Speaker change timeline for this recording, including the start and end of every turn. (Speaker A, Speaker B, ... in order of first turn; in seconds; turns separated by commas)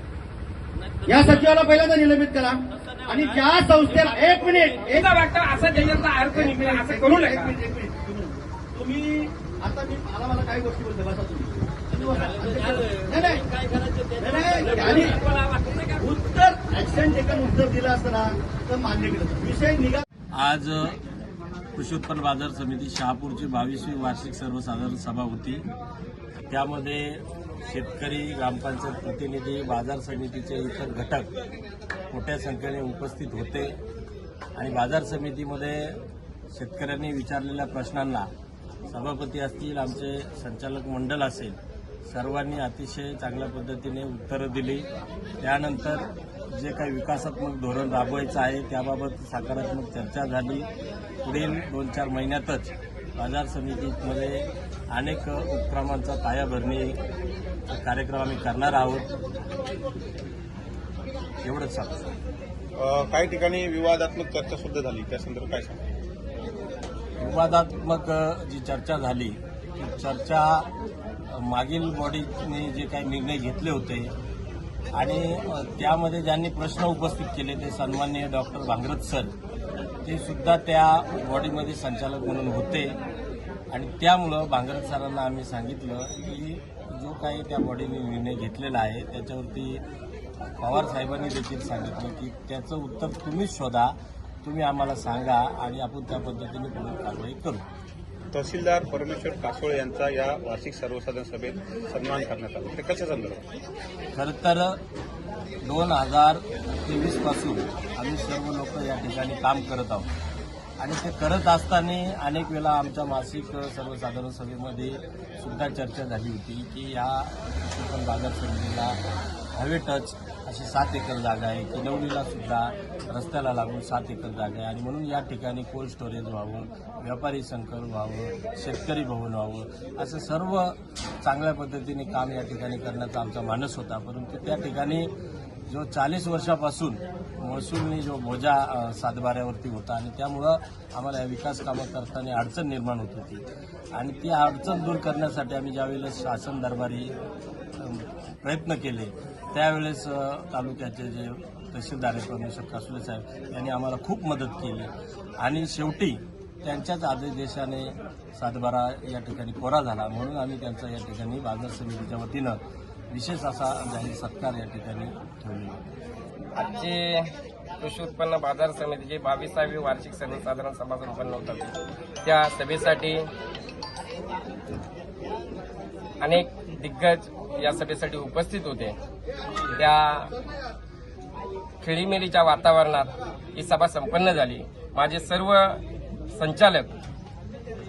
Speaker A: 1.1-13.4, Speaker B: 4.8-7.5, Speaker A: 14.1-15.2, Speaker A: 15.9-20.0, Speaker C: 20.3-21.0, Speaker C: 21.7-25.7, Speaker C: 26.5-31.3, Speaker C: 32.1-33.8, Speaker C: 34.5-36.0, Speaker C: 36.5-38.3, Speaker C: 38.9-44.9, Speaker C: 45.4-50.7, Speaker C: 51.2-57.0, Speaker C: 57.7-59.1, Speaker C: 61.4-62.1, Speaker D: 62.8-65.8, Speaker C: 67.2-70.7, Speaker C: 71.3-74.1, Speaker C: 74.9-79.3, Speaker C: 80.0-83.0, Speaker C: 83.7-89.8, Speaker C: 90.6-97.7, Speaker D: 98.3-103.5, Speaker C: 104.1-104.8, Speaker C: 105.6-110.1, Speaker C: 110.8-119.0, Speaker C: 119.5-135.1, Speaker C: 135.7-143.4, Speaker C: 143.9-147.1, Speaker C: 147.8-162.6, Speaker C: 163.1-165.8, Speaker B: 166.6-173.3, Speaker B: 176.2-179.0, Speaker B: 179.7-180.3, Speaker B: 181.8-185.8, Speaker B: 186.3-186.9